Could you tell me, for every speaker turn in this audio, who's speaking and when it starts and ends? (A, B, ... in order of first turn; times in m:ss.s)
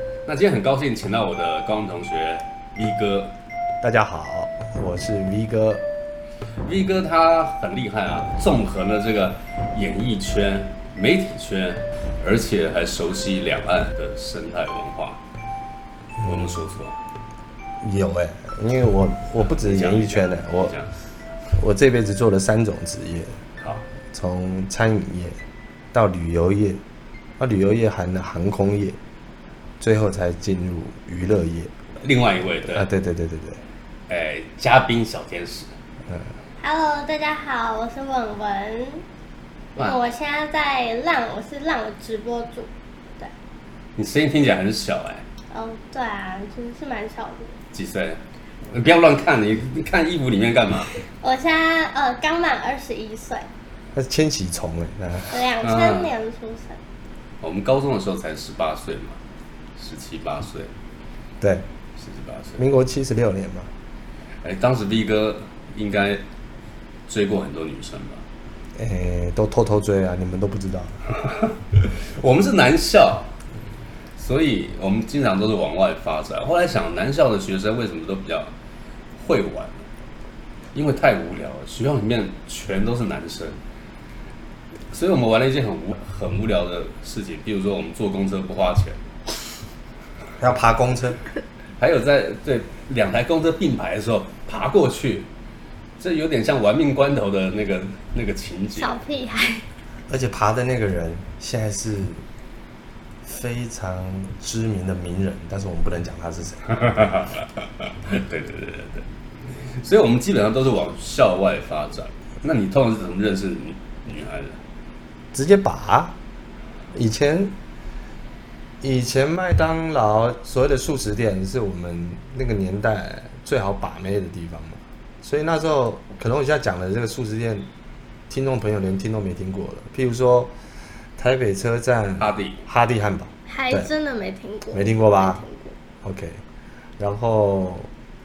0:00.2-0:03.3 A
0:03.8-0:05.8 B
0:06.6-0:15.2 A
0:16.2-0:16.6 B
0:16.2-0:17.0 A
0:17.8-0:20.8 B
0:19.4-0:20.9 A
0:21.5-0:23.4 B
0:23.6-0:23.9 A
0:24.1-0:25.4 B
0:25.9-0:26.8 B
0:27.4-0:29.0 B
0:29.8-0:31.7 B
0:32.0-0:32.9 A
0:32.7-0:33.6 B
0:34.1-0:35.7 A
0:36.6-0:39.0 C
0:39.8-0:43.3 C
0:44.0-0:45.2 A
0:45.5-0:47.6 C
0:47.7-0:48.2 A
0:48.7-0:51.0 A
0:51.0-0:53.5 C
0:53.9-0:55.3 B
0:55.3-0:56.8 C
0:55.6-0:56.1 A
0:57.4-0:59.2 A
0:59.8-1:00.7 A
1:01.4-1:01.6 B
1:02.0-1:02.6 A
1:02.6-1:03.7 B
1:04.4-1:06.2 A
1:07.1-1:08.2 A
1:08.8-1:11.0 B
1:11.7-1:13.3 A
1:14.2-1:18.5 A
1:19.2-1:19.8 A
1:20.7-1:23.6 A
1:24.9-1:29.0 A
1:30.4-1:31.2 B
1:31.8-1:35.3 A
1:36.0-1:39.0 A
1:38.7-1:39.7 C
1:40.1-1:42.2 B
1:43.2-1:46.6 B
1:46.7-1:54.6 A
1:55.3-1:56.1 B
1:56.9-1:57.5 B
1:58.8-2:07.7 B
2:08.3-2:10.5 B
2:11.2-2:13.9 B
2:12.2-2:12.6 A
2:13.5-2:15.8 C
2:14.7-2:15.4 B
2:16.0-2:16.4 B
2:17.0-2:17.9 B